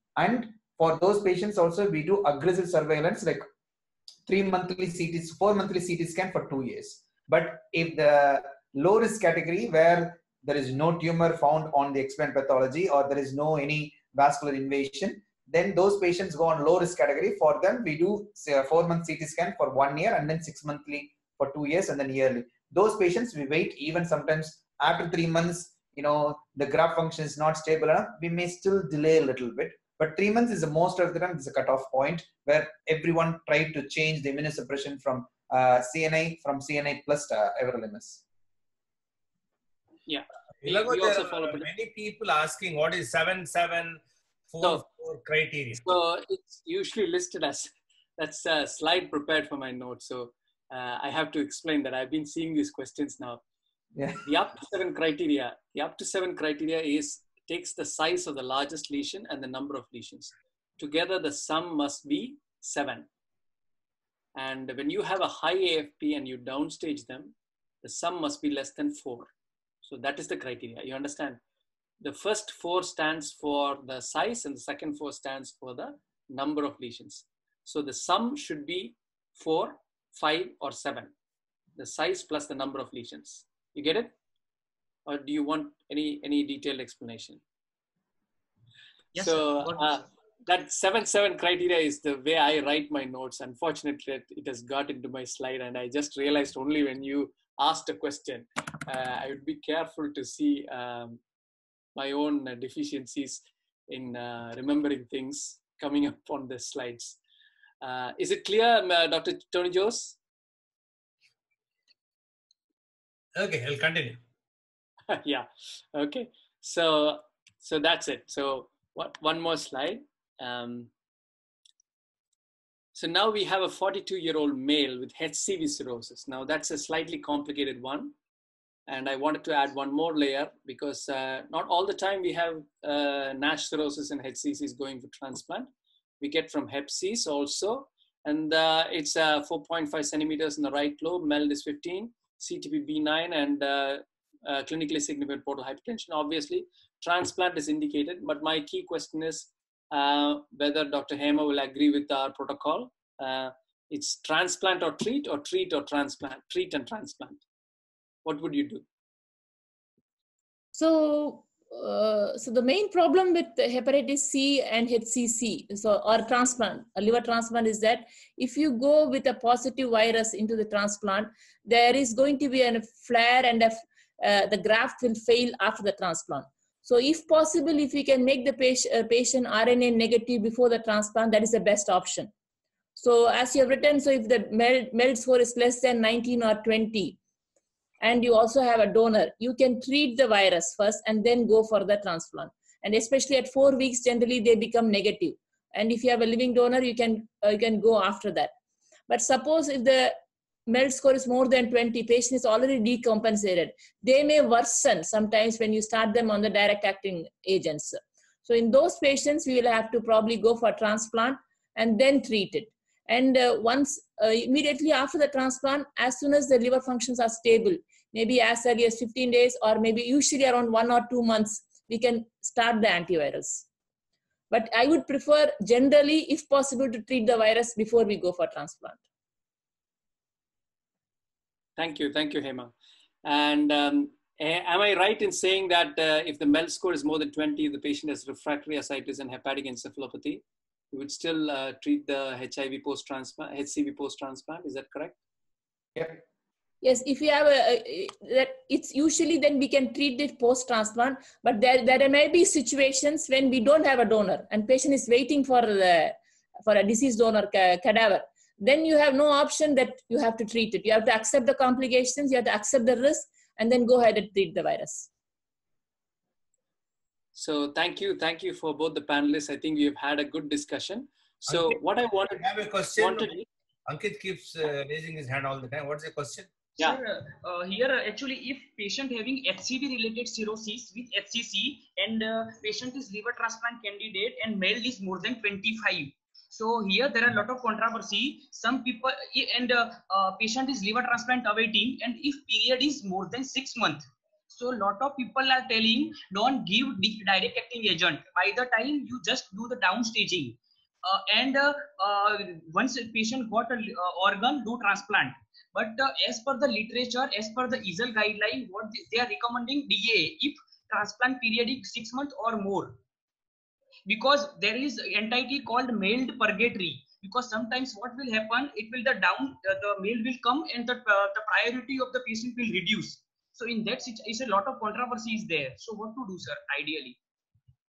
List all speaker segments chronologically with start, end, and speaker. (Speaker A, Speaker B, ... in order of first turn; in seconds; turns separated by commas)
Speaker A: 0.1-3.5, Speaker A: 4.3-38.2, Speaker B: 40.1-41.7, Speaker C: 40.6-46.0, Speaker B: 45.8-53.4, Speaker A: 53.9-54.2, Speaker B: 54.2-63.1, Speaker B: 64.3-69.3, Speaker B: 69.8-71.4, Speaker B: 72.0-81.1, Speaker B: 81.8-84.1, Speaker B: 85.0-87.4, Speaker D: 89.1-90.1, Speaker B: 89.2-101.2, Speaker B: 101.9-107.2, Speaker B: 107.8-110.2, Speaker C: 113.3-114.2, Speaker B: 115.1-120.9, Speaker B: 122.9-128.1, Speaker B: 128.9-135.7, Speaker B: 136.2-157.4, Speaker B: 158.2-158.8, Speaker E: 160.7-182.3, Speaker E: 182.9-187.2, Speaker E: 188.0-198.5, Speaker E: 199.1-200.2, Speaker E: 200.7-223.7, Speaker E: 224.5-229.0, Speaker B: 231.8-232.7, Speaker B: 233.2-245.2, Speaker A: 245.9-246.2, Speaker E: 246.8-265.1, Speaker B: 267.4-273.4, Speaker C: 271.5-273.3, Speaker C: 273.9-276.5, Speaker D: 276.8-313.0, Speaker D: 314.1-327.1